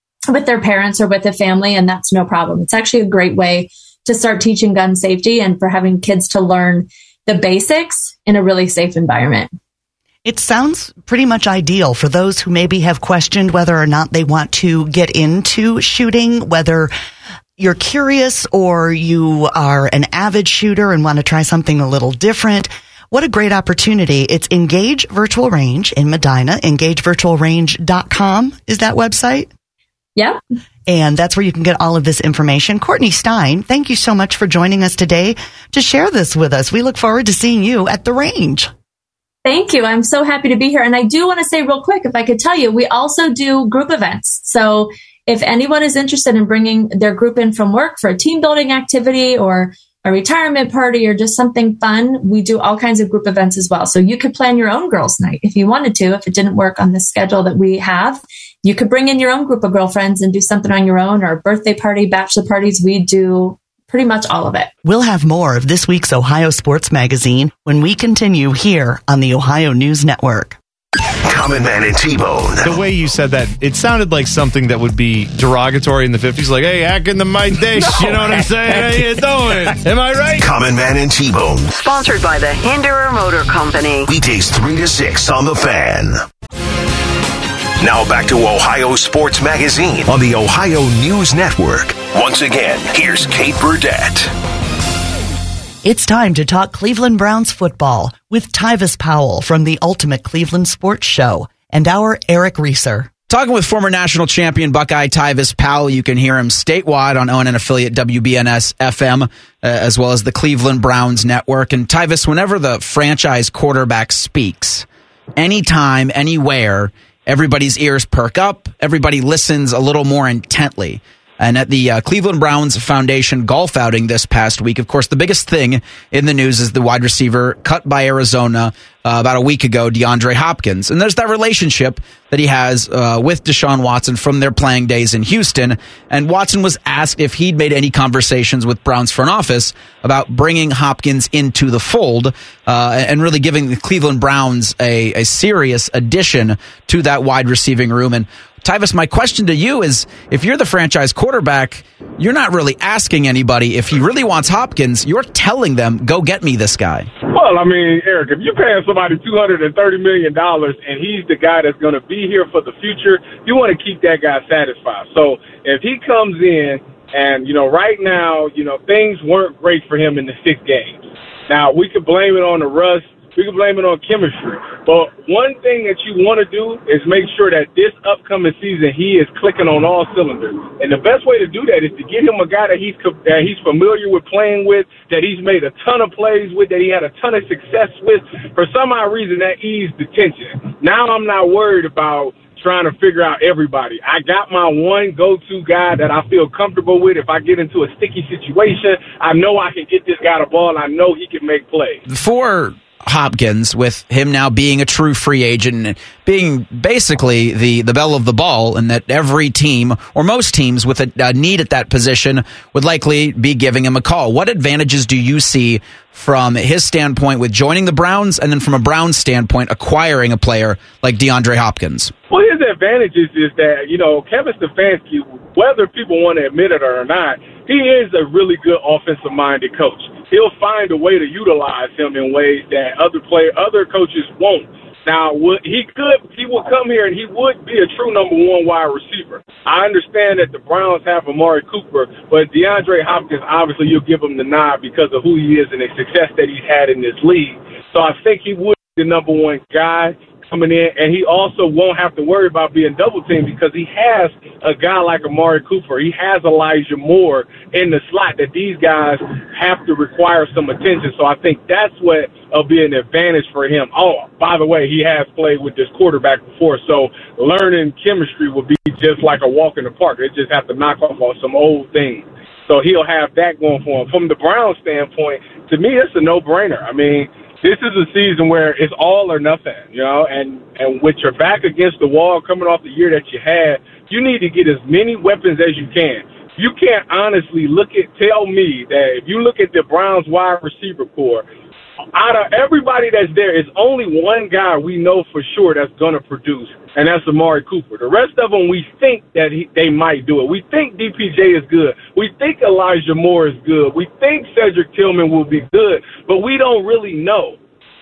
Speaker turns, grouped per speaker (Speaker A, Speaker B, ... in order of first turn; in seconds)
Speaker A: 0.3-9.5, 39.5-64.7
Speaker B: 10.2-16.9, 17.6-29.5, 30.9-38.7, 64.8-70.6, 95.8-103.1
Speaker C: 71.2-72.9, 80.3-81.7, 84.1-86.2, 87.8-94.3
Speaker D: 72.6-80.5
Speaker E: 81.7-84.1
Speaker F: 103.3-157.1, 202.1-222.1
Speaker G: 157.3-202.0, 222.3-291.5, 292.1-307.6